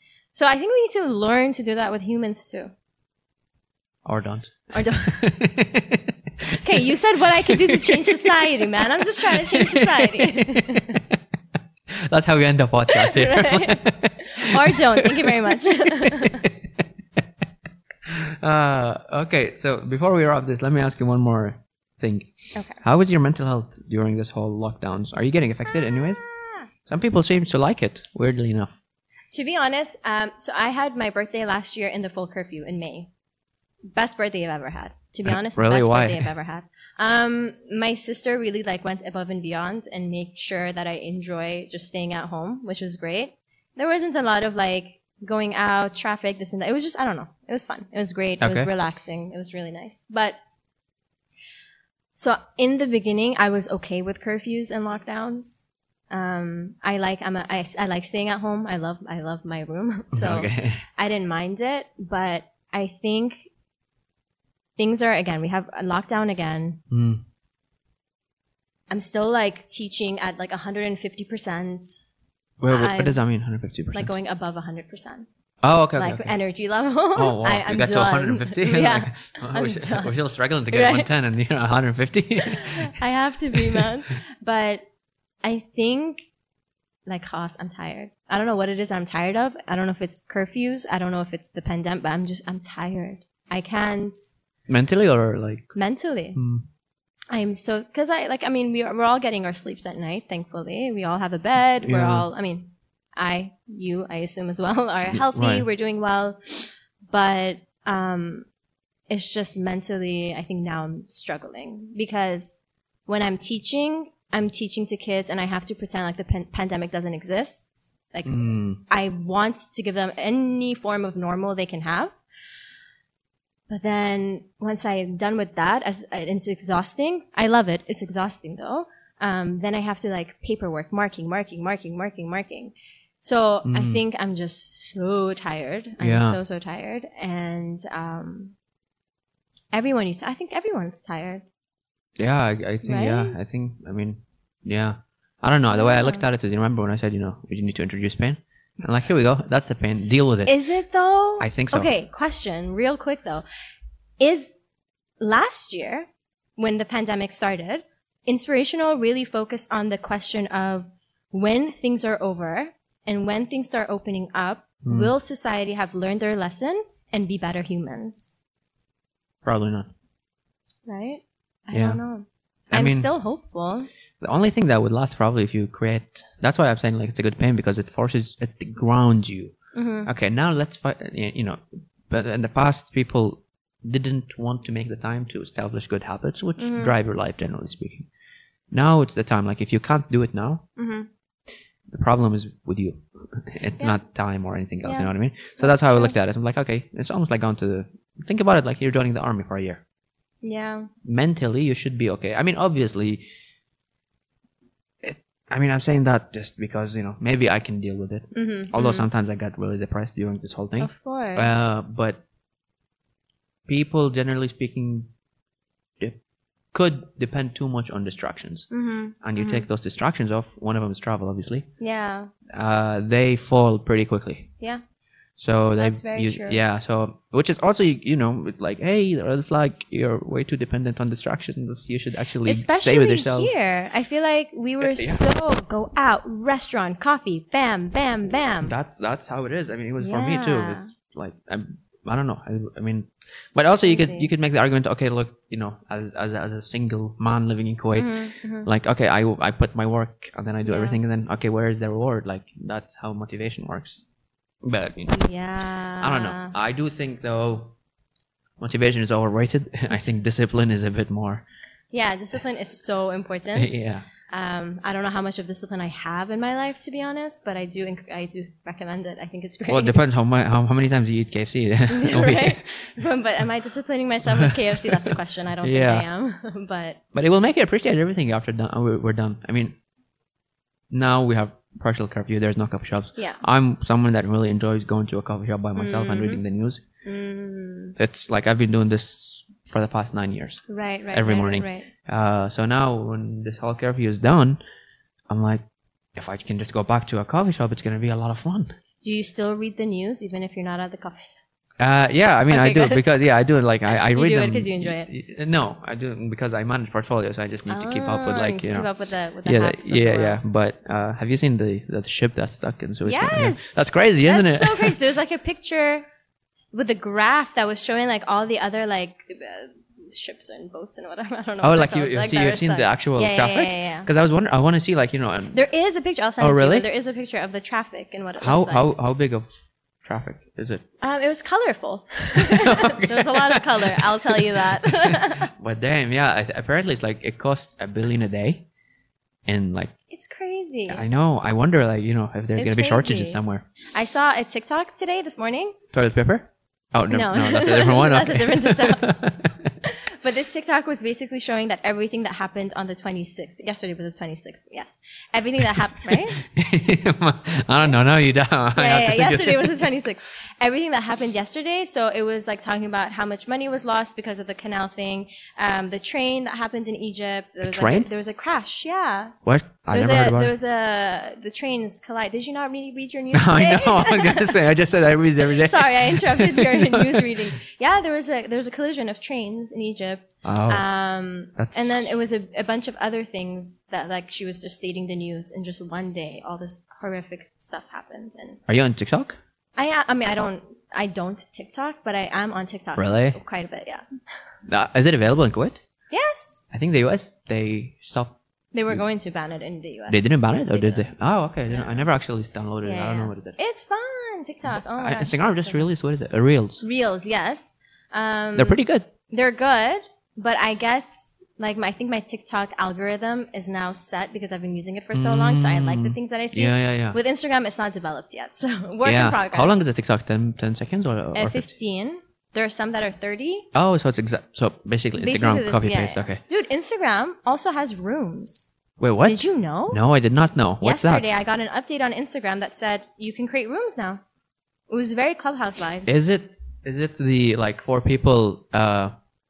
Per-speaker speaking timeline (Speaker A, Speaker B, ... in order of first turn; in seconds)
Speaker A: 0.3-2.7, 4.7-5.3, 6.6-11.0, 12.9-16.5, 29.3-33.1, 33.9-50.4, 52.1-63.5, 64.8-66.8, 68.9-72.0, 72.7-73.2, 73.9-75.3, 76.0-80.2, 80.7-81.1, 82.4-84.8, 85.4-86.3, 87.1-94.3, 95.8-96.4, 97.3-108.5, 109.1-112.6, 113.1-122.1, 123.7-138.5, 139.7-141.4, 142.8-143.4, 145.7-146.3, 150.5-153.4, 154.2-154.6, 155.2-168.4, 170.9-173.9, 179.8-180.1, 186.6-186.9, 190.8-191.1, 194.8-196.2, 200.4-200.9, 208.3-209.1, 210.8-211.8, 218.7-219.7, 221.8-222.3, 225.8-226.6, 232.4-238.8, 240.0-240.9, 243.8-244.3, 248.0-248.7, 250.6-251.0, 255.1-256.6, 261.9-270.0, 271.9-277.0, 283.2-283.4, 285.8-286.4, 287.1-288.0, 290.7-291.9, 299.0-301.3, 302.5-303.0, 303.9-305.1, 307.7-310.4, 313.1-316.1, 316.7-324.1, 325.5-328.9, 331.0-335.5, 340.1-341.0, 342.6-343.4, 343.9-345.8, 347.1-349.2, 349.8-356.4, 358.8-369.4, 369.9-374.6, 375.4-388.6, 389.8-394.1, 396.1-396.7, 398.7-401.1, 401.7-402.1, 402.8-405.9, 406.8-419.9, 421.3-423.7, 425.2-428.7, 429.2-430.0, 430.8-434.2, 434.9-436.2
Speaker B: 4.0-6.9, 7.4-11.2, 11.9-16.7, 18.1-26.2, 26.9-28.7, 35.3-36.3, 48.4-48.7, 60.1-60.8, 66.9-67.2, 72.6-74.1, 75.6-76.3, 77.2-83.0, 83.5-83.9, 94.7-95.7, 96.3-96.7, 101.8-102.3, 105.1-105.7, 118.2-118.8, 133.7-134.0, 136.0-136.4, 142.2-150.6, 151.4-151.9, 164.8-165.1, 169.4-169.9, 171.7-172.0, 172.7-173.1, 174.2-179.6, 180.1-188.1, 188.7-190.6, 191.9-199.8, 201.0-203.2, 205.0-212.2, 213.7-215.1, 216.7-218.7, 219.2-221.7, 222.5-224.5, 225.4-233.5, 234.8-235.2, 238.6-254.1, 254.6-255.2, 256.0-257.8, 258.6-261.4, 263.6-264.1, 269.7-272.9, 274.3-274.8, 275.6-276.1, 277.1-279.8, 280.9-286.8, 288.0-290.6, 291.1-294.6, 295.3-295.6, 296.2-298.8, 301.8-308.9, 309.4-315.0, 321.6-325.6, 326.4-326.9, 328.4-329.5, 330.0-330.8, 332.4-338.7, 339.5-339.9, 340.9-343.7, 345.9-349.7, 356.1-359.9, 367.6-368.1, 369.4-370.5, 373.3-377.5, 380.4-380.8, 381.6-382.1, 388.7-389.4, 393.0-393.4, 394.7-395.8, 396.7-398.4, 400.1-403.6, 404.7-406.8, 408.6-409.1, 415.1-417.2, 419.0-421.7, 423.7-426.4, 429.0-431.3, 436.1-439.1